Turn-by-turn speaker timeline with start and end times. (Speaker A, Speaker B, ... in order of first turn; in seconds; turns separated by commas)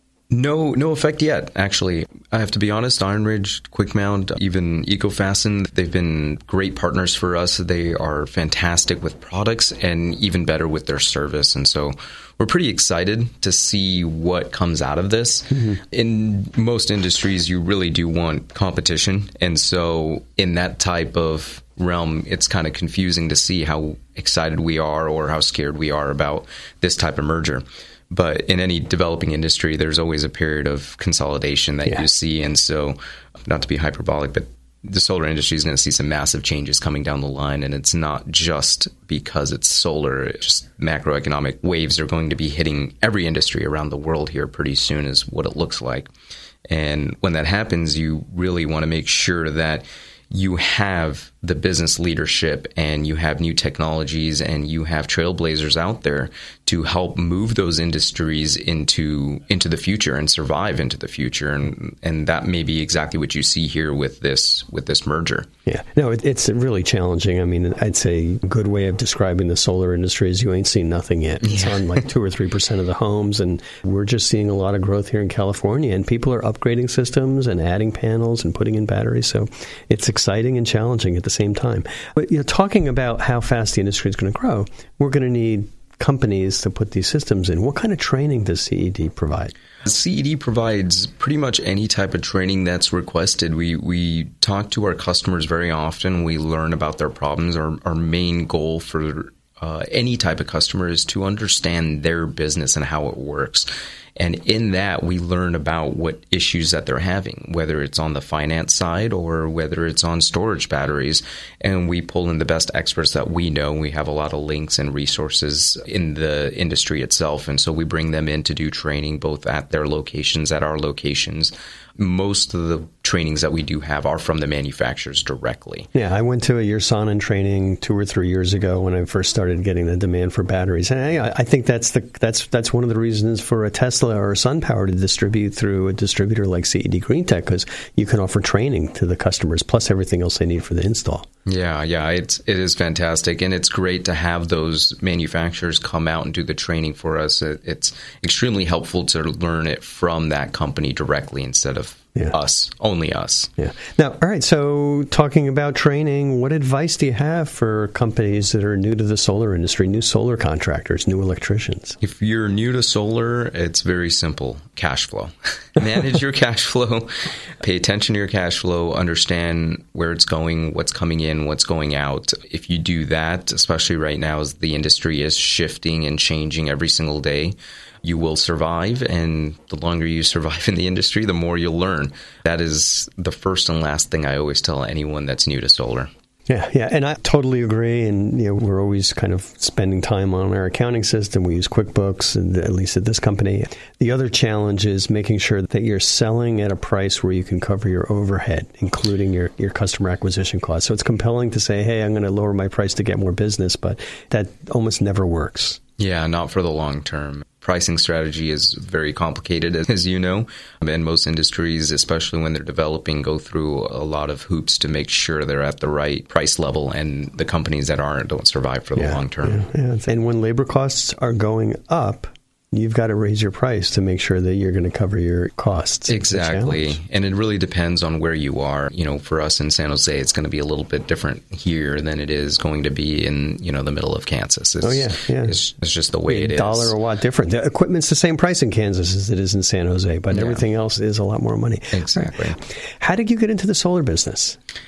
Speaker A: 0.3-46.1, Speaker B: 15.5-15.8, Speaker A: 46.7-65.5, Speaker B: 65.7-89.5, Speaker A: 89.8-125.9, Speaker B: 125.9-141.3, Speaker A: 141.5-153.5, Speaker B: 153.6-162.0, Speaker A: 162.0-167.1, Speaker A: 167.6-186.1, Speaker B: 186.5-205.8, Speaker A: 206.0-219.7, Speaker B: 219.0-226.9, Speaker A: 226.1-236.9, Speaker B: 234.8-235.6, Speaker B: 236.3-244.6, Speaker A: 240.3-240.6, Speaker A: 241.9-242.6